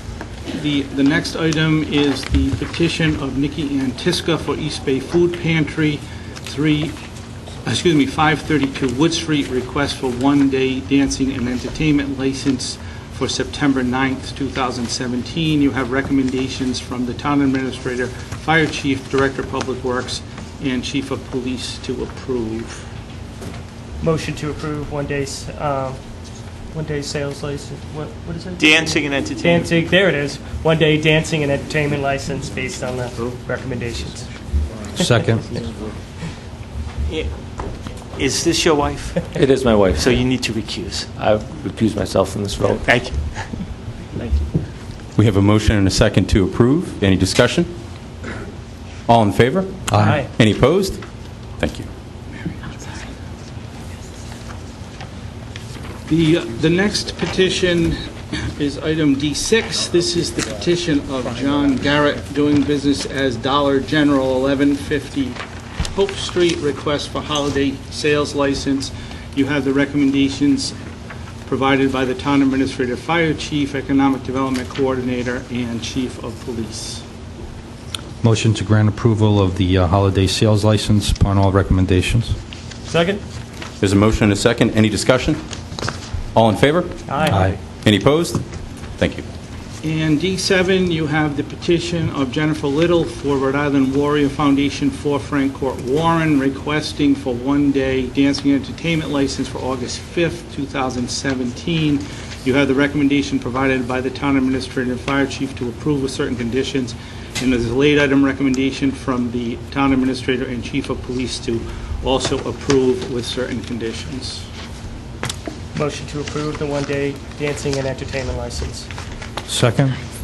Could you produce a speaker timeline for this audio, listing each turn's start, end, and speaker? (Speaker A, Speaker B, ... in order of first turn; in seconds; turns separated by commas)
Speaker A: 0.5-7.0, Speaker A: 7.6-22.9, Speaker B: 24.0-26.0, Speaker B: 26.7-34.4, Speaker C: 28.6-29.5, Speaker D: 34.9-35.6, Speaker C: 38.2-39.2, Speaker E: 39.4-40.1, Speaker C: 40.1-41.1, Speaker E: 41.2-42.8, Speaker C: 42.8-43.2, Speaker F: 45.1-47.7, Speaker F: 49.1-51.0, Speaker D: 49.9-50.2, Speaker F: 51.6-51.9, Speaker A: 56.1-70.8, Speaker A: 71.4-77.0, Speaker D: 78.2-82.3, Speaker B: 82.9-83.2, Speaker F: 83.8-85.4, Speaker F: 86.3-87.3, Speaker B: 87.1-87.4, Speaker D: 87.3-87.5, Speaker F: 87.8-88.4, Speaker F: 89.0-89.2, Speaker A: 89.8-114.5, Speaker B: 115.7-118.9, Speaker D: 119.5-120.0